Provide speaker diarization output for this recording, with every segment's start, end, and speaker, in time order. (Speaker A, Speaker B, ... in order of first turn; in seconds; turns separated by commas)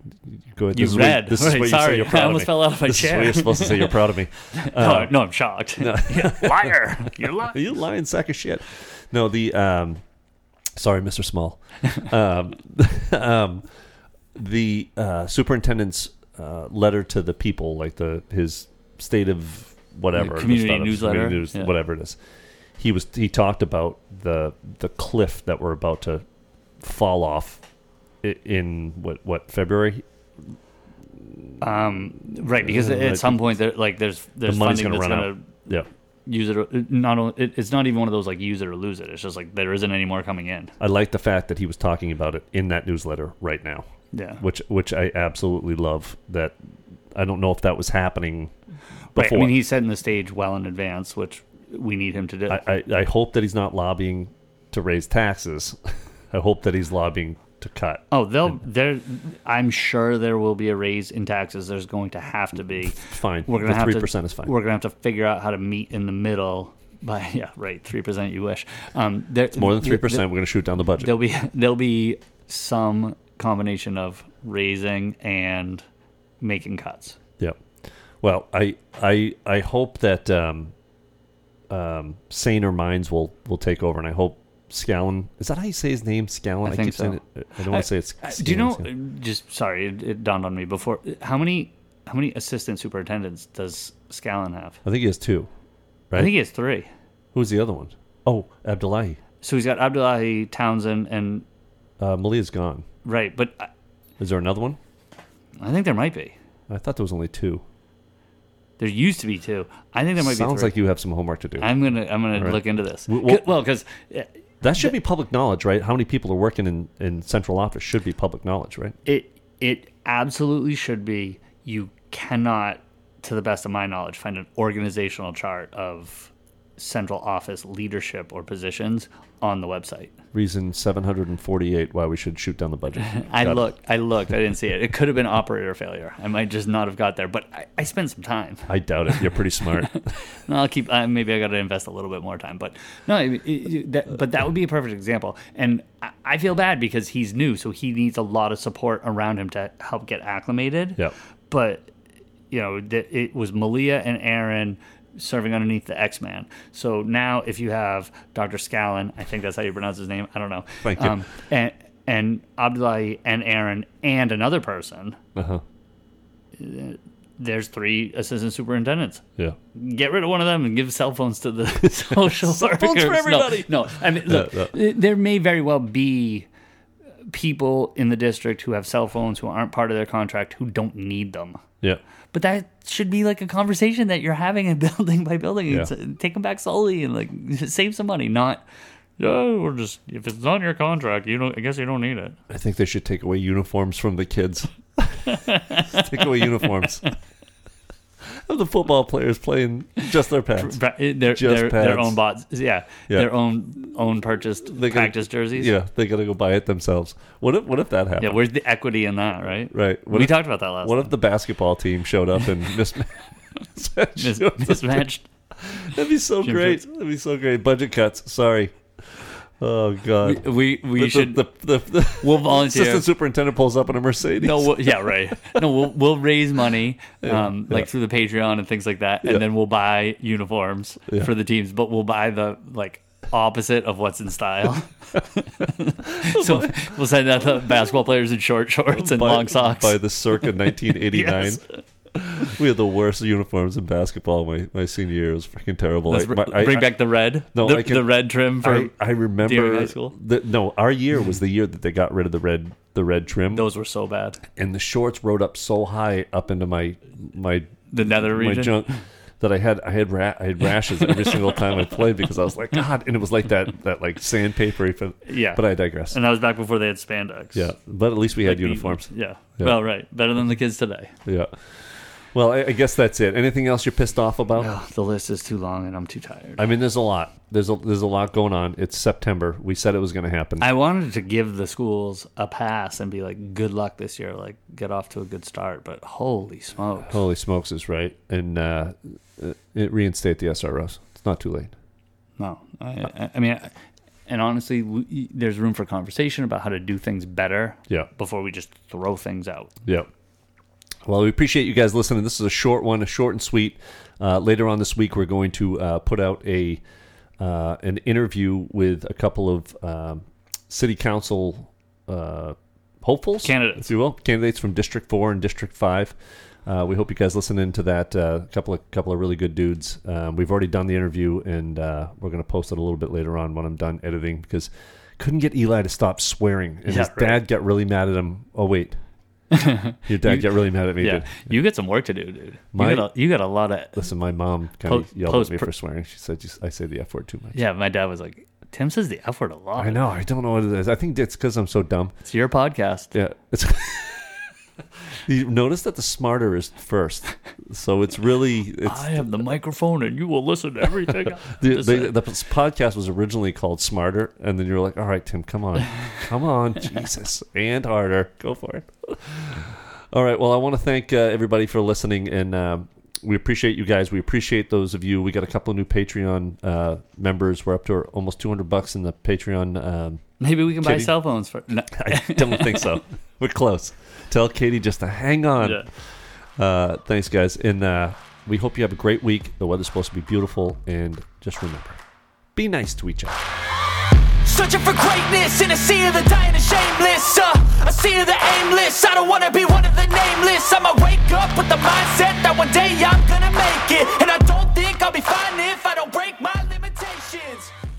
Speaker A: 0.5-5.1, Speaker B: 0.7-4.0, Speaker B: 4.5-7.6, Speaker A: 5.8-6.7, Speaker A: 7.4-10.0, Speaker A: 10.8-13.7, Speaker A: 14.3-22.2, Speaker B: 20.1-21.7, Speaker A: 22.8-26.2, Speaker A: 26.8-27.6, Speaker A: 28.2-30.0, Speaker B: 31.6-35.7, Speaker A: 32.6-33.5, Speaker A: 34.4-35.9, Speaker B: 36.3-40.7, Speaker A: 40.8-43.9, Speaker B: 44.1-44.4, Speaker A: 44.4-46.5, Speaker A: 47.1-48.5, Speaker A: 49.1-49.5, Speaker B: 49.1-52.6, Speaker A: 52.5-55.8, Speaker A: 56.3-58.0, Speaker B: 58.1-70.3, Speaker A: 63.0-64.5, Speaker A: 69.5-71.1, Speaker B: 71.0-75.8, Speaker B: 76.4-77.2, Speaker A: 78.2-80.7, Speaker A: 81.7-88.9, Speaker B: 86.6-94.8, Speaker A: 94.8-95.5, Speaker B: 96.1-96.9, Speaker A: 97.3-99.2, Speaker B: 99.4-101.4, Speaker A: 102.0-102.8, Speaker B: 103.0-103.7, Speaker A: 104.2-104.8, Speaker B: 105.6-106.3, Speaker A: 106.7-107.6, Speaker B: 108.8-110.7, Speaker A: 110.2-111.7, Speaker B: 111.6-114.3, Speaker A: 112.3-113.5, Speaker A: 114.6-118.9, Speaker B: 119.0-130.1, Speaker A: 130.3-133.6, Speaker B: 133.0-139.2, Speaker A: 138.7-140.0, Speaker B: 139.9-151.9, Speaker B: 152.5-165.2, Speaker A: 160.8-161.2, Speaker A: 165.3-165.6, Speaker B: 166.6-169.2, Speaker B: 169.7-176.5, Speaker A: 172.3-174.7, Speaker B: 177.3-181.6, Speaker B: 182.3-188.6, Speaker B: 189.2-192.4, Speaker A: 192.5-197.1, Speaker B: 195.2-197.1, Speaker A: 198.3-202.2, Speaker B: 200.6-205.7, Speaker A: 204.7-208.4, Speaker B: 208.2-211.1, Speaker A: 209.7-213.1, Speaker A: 213.7-215.1, Speaker B: 214.1-215.3, Speaker A: 215.6-225.6, Speaker B: 216.4-216.8, Speaker B: 220.2-221.4, Speaker B: 222.2-223.1, Speaker B: 224.4-240.0, Speaker A: 227.2-227.9, Speaker A: 236.3-236.8, Speaker A: 238.9-241.6, Speaker B: 241.1-241.7, Speaker A: 242.1-247.0, Speaker B: 246.1-250.1, Speaker A: 247.5-253.6, Speaker B: 253.5-254.4, Speaker A: 254.6-266.2, Speaker B: 257.9-259.0, Speaker B: 265.2-267.7, Speaker A: 267.5-269.1, Speaker B: 268.4-271.1, Speaker A: 271.2-271.5, Speaker A: 272.3-274.7, Speaker B: 274.6-276.6, Speaker A: 276.6-280.7, Speaker B: 280.6-287.2, Speaker A: 287.1-291.7, Speaker B: 292.4-293.7, Speaker B: 294.3-299.7, Speaker A: 301.1-306.8, Speaker A: 307.4-316.1, Speaker B: 313.4-313.9, Speaker A: 316.6-328.9, Speaker B: 326.9-327.4, Speaker B: 329.5-334.1, Speaker A: 330.1-331.4, Speaker A: 332.7-333.1, Speaker A: 333.9-337.6, Speaker B: 334.8-335.7, Speaker B: 337.5-340.0, Speaker A: 339.8-342.1, Speaker B: 342.2-343.1, Speaker A: 343.1-344.3, Speaker A: 345.2-349.2, Speaker B: 348.8-352.1, Speaker A: 351.5-370.2, Speaker B: 370.4-373.0, Speaker A: 370.8-371.1, Speaker A: 371.9-375.9, Speaker B: 375.6-375.9, Speaker A: 376.6-382.0, Speaker A: 382.5-383.4, Speaker C: 384.4-397.7